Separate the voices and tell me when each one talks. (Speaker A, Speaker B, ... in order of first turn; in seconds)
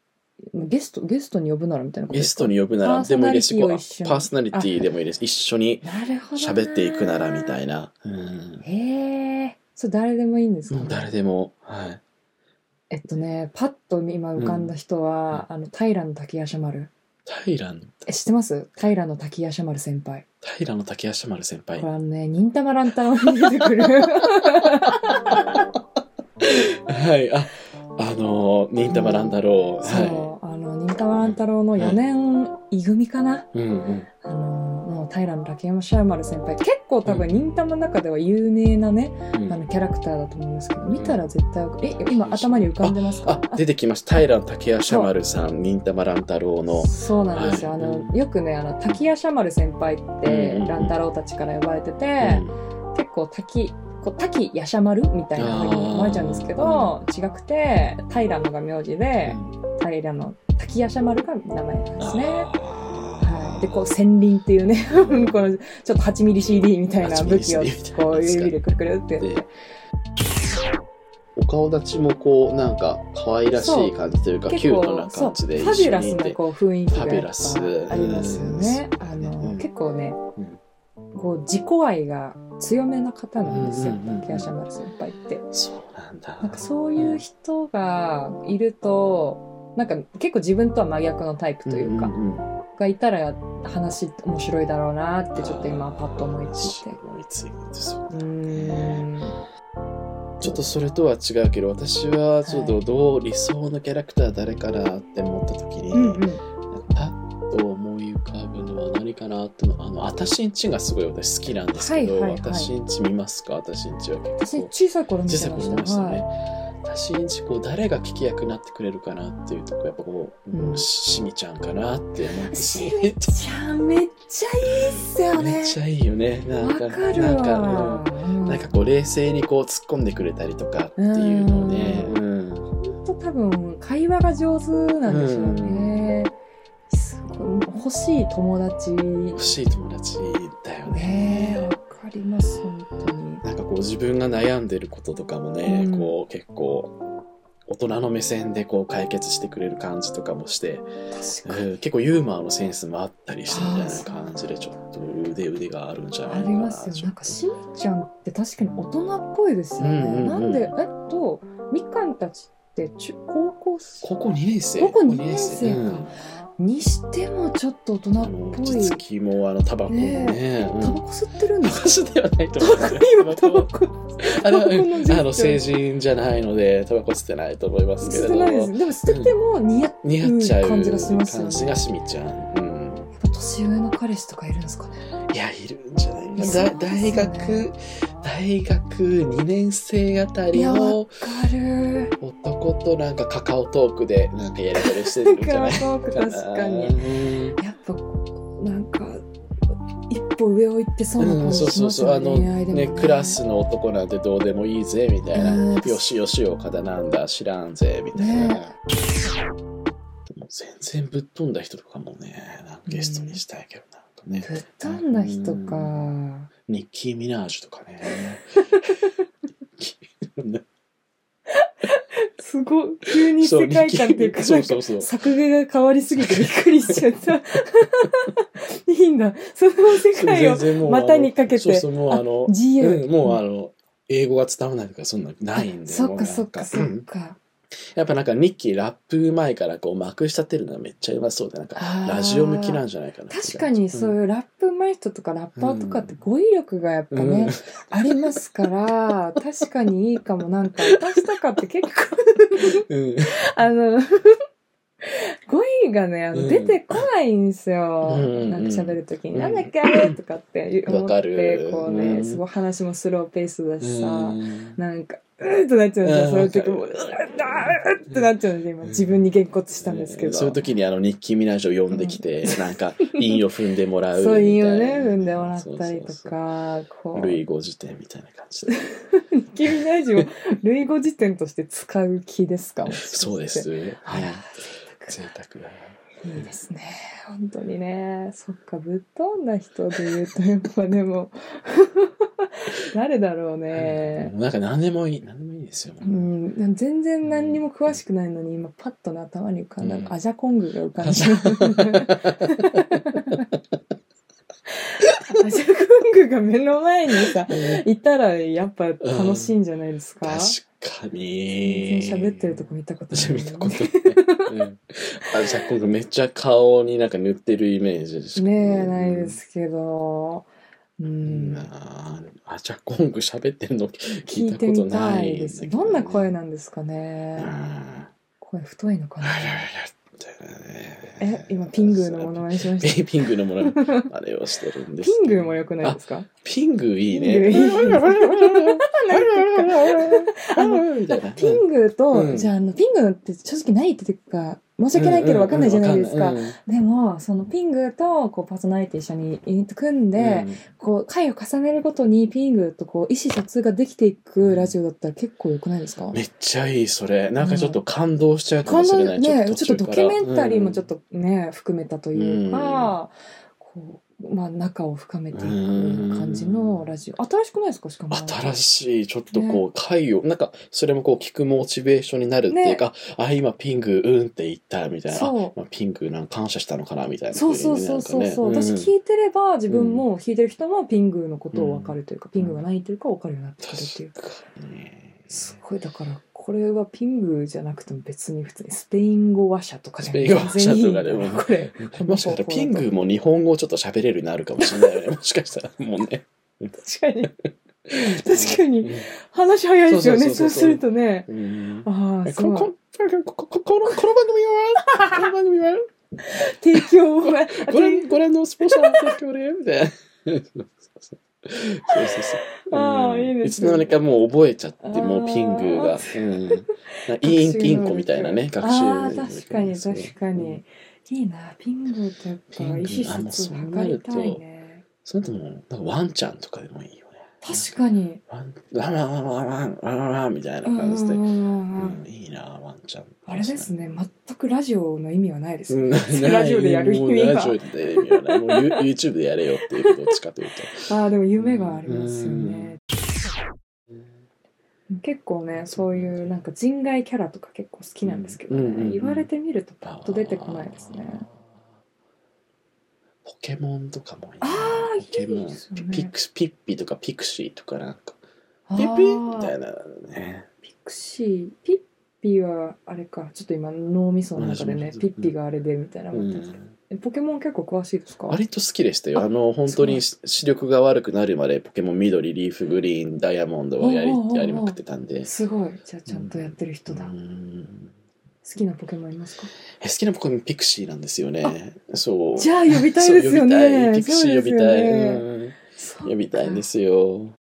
Speaker A: 0.5-4.7, 5.8-7.6, 8.6-11.1, 12.9-16.9, 18.1-20.2, 21.8-25.4, 28.9-33.5, 34.2-43.6, 44.9-45.1, 46.7-62.5, 63.2-69.5, 73.5-74.0, 74.5-80.2, 81.1-85.5, 86.4-92.2, 92.7-97.0, 98.1-99.4, 100.4-100.7, 102.5-102.8, 105.9-106.4, 111.7-112.7, 114.4-116.2, 120.5-120.8, 122.5-125.8, 126.6-128.7, 131.0-132.2, 132.8-136.3, 136.9-139.4, 140.9-143.4, 145.7-146.2, 151.1-151.7, 153.5-154.4, 156.2-164.1, 164.8-169.0, 169.9-172.0, 172.6-175.6, 178.0-181.9, 183.2-185.1, 186.4-187.7, 190.5-192.1, 194.8-197.1, 197.6-199.2, 200.1-203.4, 205.3-206.1, 208.2-208.7, 212.9-213.4, 214.4-216.5, 218.6-219.2, 221.5-233.4, 235.6-237.4, 241.8-254.4, 255.0-270.6, 271.9-273.0, 274.1-277.4, 278.7-285.2, 286.2-294.3, 296.0-303.4, 305.0-310.6, 311.6-314.5, 318.4-321.7, 324.3-327.5, 328.4-329.6, 331.2-334.1, 335.0-336.3, 337.1-356.2, 357.4-357.8, 358.6-368.6, 369.3-369.6, 372.5-372.8, 375.1-375.6, 377.3-384.1, 385.3-392.9, 396.8-397.3, 397.9-401.3, 401.8-402.7, 406.2-408.1, 408.7-409.1, 412.6-413.9, 414.8-424.8, 427.4-428.2, 430.6-432.0, 433.3-438.8, 440.8-442.8, 444.9-451.3, 454.4-456.1, 458.7-459.5, 460.7-468.4, 469.1-470.0, 473.8-477.1, 478.4-479.5, 482.4-486.6
Speaker B: 2.1-8.6, 10.7-12.0, 14.4-14.7, 17.3-18.1, 20.4-21.9, 23.4-24.3, 24.9-25.6, 26.4-30.3, 31.1-32.0, 33.5-34.1, 37.0-37.4, 39.3-39.6, 40.9-41.2, 42.0-48.1, 50.2-51.0, 52.2-52.6, 55.4-57.0, 59.3-59.6, 62.0-63.9, 64.9-65.4, 67.0-68.6, 71.4-76.4, 76.9-79.7, 83.4-84.5, 85.5-87.2, 91.7-92.5, 95.3-99.1, 100.4-114.7, 115.3-123.4, 125.3-132.7, 135.1-136.2, 139.3-141.7, 143.4-147.0, 147.7-150.9, 151.4-157.1, 159.8-160.7, 164.0-166.1, 168.2-171.0, 171.6-173.7, 174.2-179.3, 180.0-183.1, 185.3-191.2, 192.2-197.6, 201.2-208.7, 210.3-216.1, 216.7-218.9, 219.8-220.6, 223.1-225.1, 226.2-227.0, 229.9-237.1, 237.9-244.2, 245.6-246.2, 247.1-248.3, 252.9-253.3, 256.3-257.0, 258.0-260.1, 260.9-262.4, 263.8-264.8, 266.0-268.2, 268.9-269.2, 269.8-276.3, 277.1-278.8, 279.7-280.3, 282.9-284.5, 285.1-286.0, 293.7-296.3, 297.2-298.0, 299.8-300.1, 301.0-302.4, 303.1-303.4, 307.5-307.8, 309.0-309.6, 310.2-319.4, 321.2-326.3, 327.4-328.1, 329.2-342.5, 344.9-346.6, 350.1-350.6, 354.4-354.7, 356.1-360.9, 362.1-363.0, 365.3-366.9, 368.1-378.9, 379.7-380.1, 381.5-382.6, 383.6-385.5, 390.0-396.7, 398.1-399.1, 399.9-405.9, 406.7-420.6, 422.5-424.4, 425.0-427.7, 428.3-431.2, 431.8-433.7, 435.7-440.9, 441.4-442.8, 445.7-446.4, 448.0-449.3, 449.8-451.3, 453.2-458.2, 458.8-460.5, 464.4-465.3, 466.1-466.7, 468.3-475.3, 476.1-477.9, 479.8-487.4